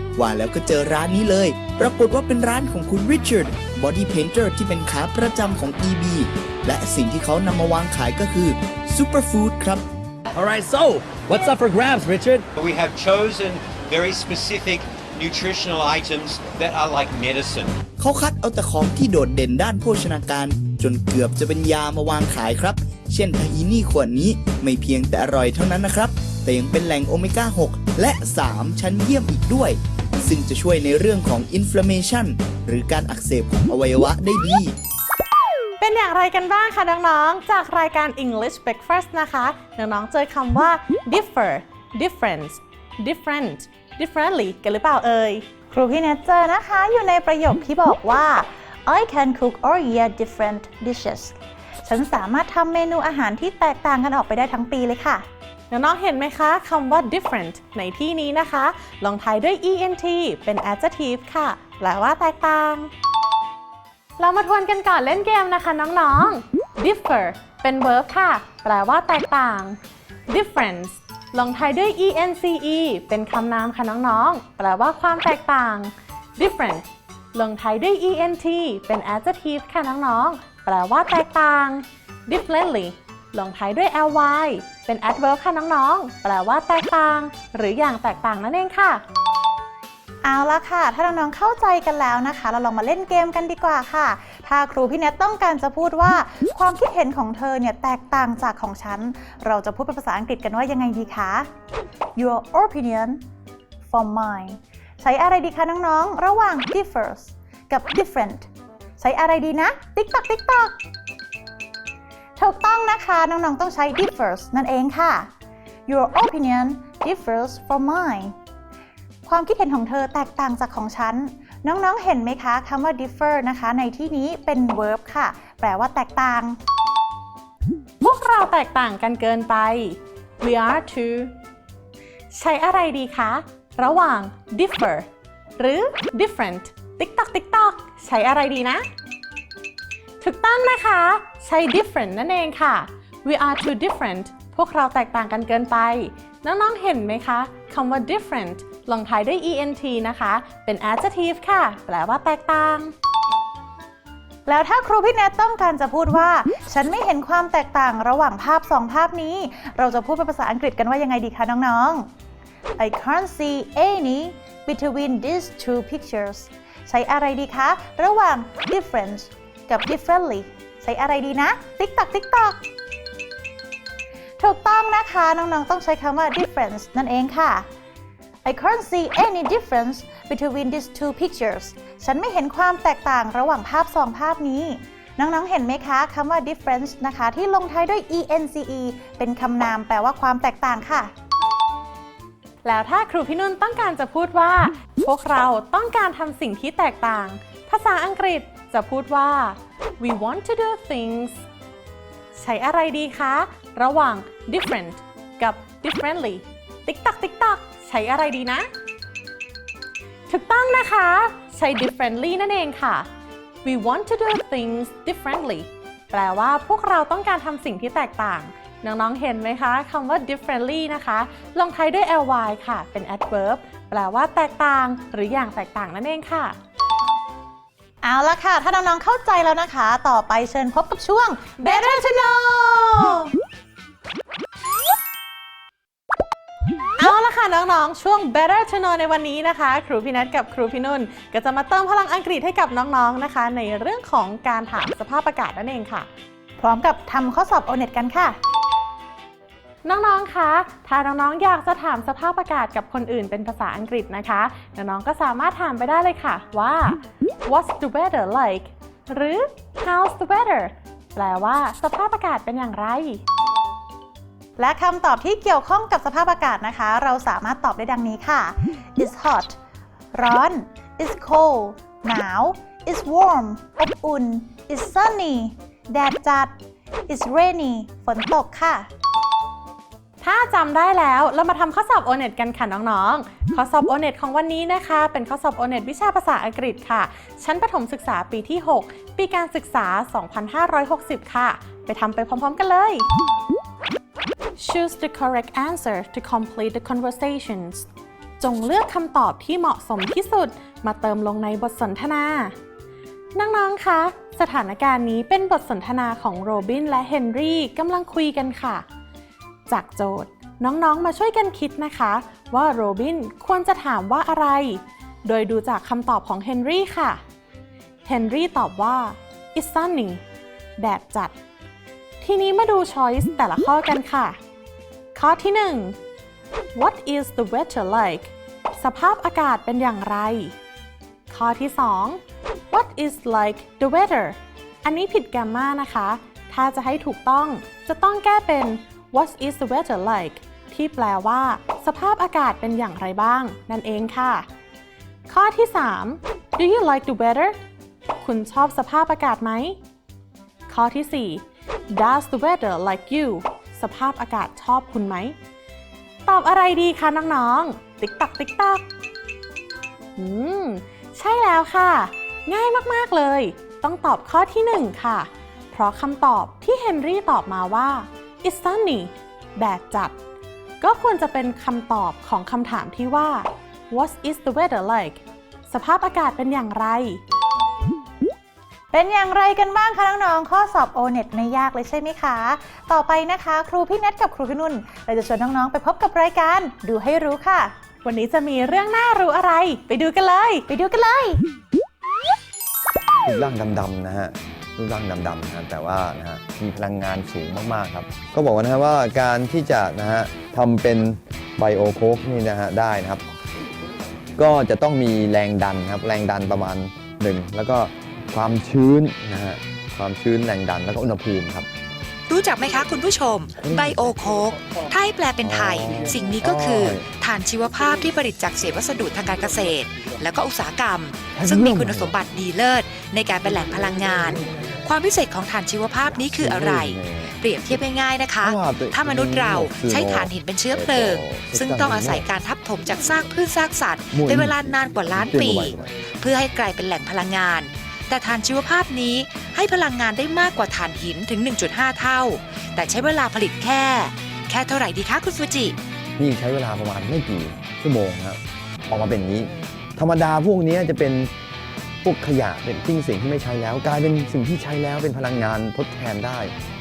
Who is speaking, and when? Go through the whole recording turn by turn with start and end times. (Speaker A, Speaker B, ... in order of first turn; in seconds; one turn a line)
Speaker A: 0.1-9.8
Speaker B: 10.3-12.4
Speaker C: 12.5-17.7
Speaker A: 18.0-34.8
Speaker D: 35.8-45.4
Speaker E: 45.7-51.3
Speaker E: 51.8-55.2
Speaker D: 55.7-62.9
Speaker D: 64.2-69.8
Speaker D: 70.3-89.0
Speaker E: 90.2-101.5
Speaker E: 102.2-103.2
Speaker E: 103.9-108.5
Speaker E: 109.0-110.8
Speaker E: 112.4-115.3
Speaker E: 115.9-118.3
Speaker E: 119.2-126.6
Speaker D: 128.0-131.3
Speaker D: 132.3-135.1
Speaker D: 135.6-138.8
Speaker D: 140.2-152.9
Speaker E: 154.5-162.0
Speaker E: 162.8-172.6
Speaker E: 174.4-177.7
Speaker E: 178.4-191.1
Speaker D: 192.6-201.4
Speaker D: 202.3-208.7
Speaker D: 210.3-213.1
Speaker D: 213.6-226.6
Speaker E: 228.0-233.2
Speaker D: 231.6-233.3
Speaker D: 237.0-246.1
Speaker E: 246.6-248.3
Speaker D: 249.8-263.2
Speaker E: 264.6-269.6
Speaker E: 270.1-276.5
Speaker E: 277.1-278.9
Speaker D: 280.2-293.1
Speaker D: 294.6-297.9
Speaker D: 298.4-302.5
Speaker D: 303.4-308.8
Speaker D: 309.7-317.2
Speaker D: 318.1-320.2
Speaker D: 320.8-321.3
Speaker D: 322.2-324.4
Speaker D: 325.1-325.9
Speaker D: 326.8-330.5
Speaker D: 331.3-332.2
Speaker D: 332.7-344.4
Speaker D: 345.3-347.6
Speaker D: 348.2-349.8
Speaker D: 350.7-355.3
Speaker D: 356.2-358.8
Speaker D: 360.2-370.1
Speaker D: 370.8-377.2
Speaker E: 378.9-387.7
Speaker D: 388.0-390.6
Speaker E: 390.7-391.4
Speaker F: 393.2-403.2
Speaker F: 404.4-411.7
Speaker G: 412.3-445.8
Speaker F: 413.6-414.2
Speaker F: 415.4-417.1
Speaker F: 421.3-422.1
Speaker F: 426.1-427.8
Speaker F: 428.4-432.3
Speaker F: 434.1-436.0
Speaker F: 446.2-451.3
Speaker F: 452.0-456.5